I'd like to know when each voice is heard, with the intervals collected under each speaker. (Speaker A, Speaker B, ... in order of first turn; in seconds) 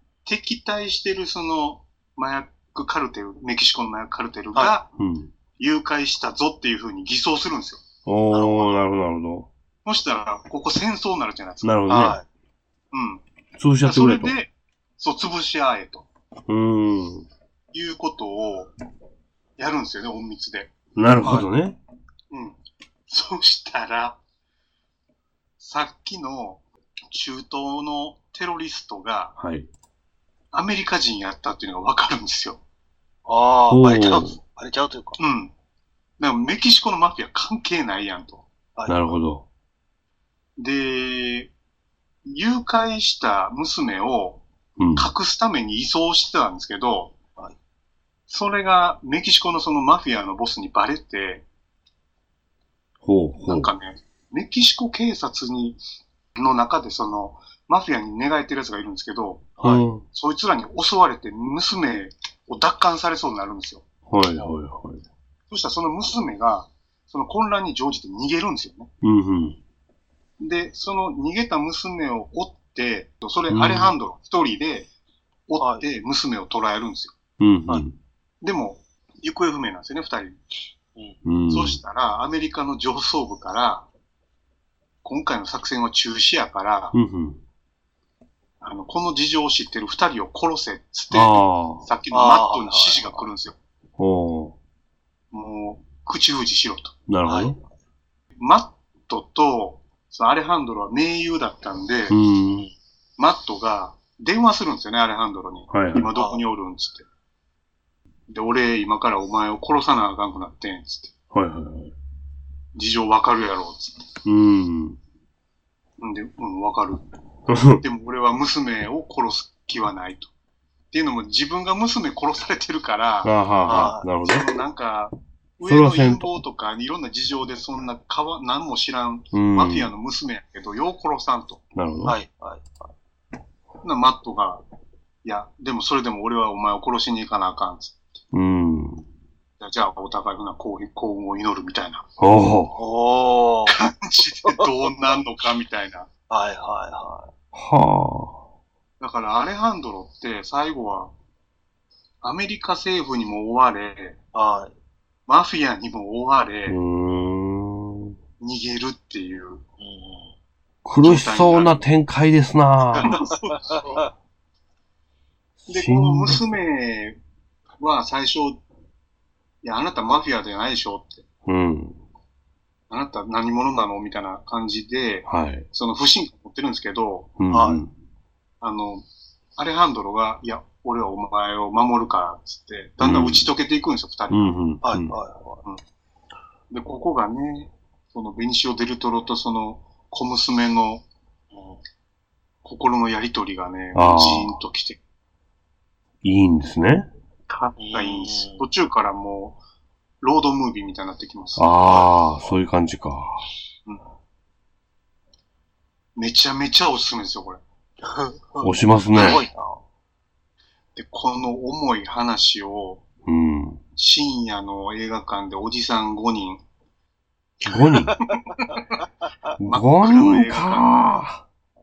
Speaker A: 0.2-4.9, 5.6-7.8, 9.8-11.7, 12.9-13.2, 13.8-16.1, 17.7-18.7, 19.6-21.5, 22.3-24.2, 25.6-29.3, 30.5-32.6, 35.2-35.5, 36.2-38.4, 40.6-41.5, 42.2-44.4, 44.9-47.1, 48.3-51.4, 53.4-55.8, 56.3-59.5, 60.1-63.8, 65.5-68.9, 70.4-74.9, 75.5-77.2, 78.4-80.4, 81.5-83.9, 85.0-86.9, 88.6-93.5, 95.3-96.9, 98.4-102.2, 103.2-107.0, 108.3-111.1, 112.7-114.1, 116.0-117.0, 117.8-120.3, 120.9-131.6, 133.8-134.6, 135.2-138.0, 139.6-142.1, 143.7-146.1, 149.0-151.1, 152.2-154.2, 155.3-156.8, 158.4-159.6, 161.0-161.8, 162.9-164.1, 165.7-167.2, 167.8-168.6, 169.6-171.2, 172.9-177.3, 178.6-179.0, 179.6-184.5, 186.7-191.0, 192.6-195.0, 197.5-199.6, 200.2-201.7, 206.2-207.6, 210.9-213.0, 213.9-216.6, 218.3-219.0, 219.6-221.2
Speaker B: 5.0-5.3, 8.0-9.5, 11.6-12.2, 13.6-14.3, 16.5-17.3, 20.9-21.8, 29.4-29.7, 33.7-34.4, 38.9-39.4, 44.8-45.1, 53.0-53.7, 59.6-60.0, 64.1-65.0, 69.0-69.6, 73.5-73.9, 77.4-78.0, 81.2-81.8, 86.9-87.4, 91.1-91.9, 94.0-94.5, 97.1-97.6, 102.1-102.7, 105.7-106.1, 111.3-111.9, 114.2-115.0, 117.5-117.8, 123.2-124.6, 125.6-126.3, 129.3-129.9, 131.7-132.2, 138.3-139.1, 142.2-142.8, 147.5-148.4, 156.7-158.2, 160.8-163.1, 165.6-166.5, 171.4-172.0, 175.3-175.7, 177.4-177.9, 183.0-183.5, 184.3-185.2, 193.9-194.5, 196.2-197.1, 201.6-203.4, 208.6-209.4, 213.2-213.8, 217.7-218.1, 219.6-221.4
Speaker C: 8.3-8.8, 11.9-12.2, 33.2-35.2, 38.8-39.1, 59.6-59.9, 75.6-75.8, 92.1-93.2, 97.2-97.6, 106.2-106.4, 123.7-124.0, 132.0-132.8, 142.7-143.7, 146.3-147.3, 154.3-154.7, 159.8-160.3, 177.5-177.8, 184.8-185.6, 191.5-191.8, 197.8-198.6, 201.9-202.5, 208.1-209.8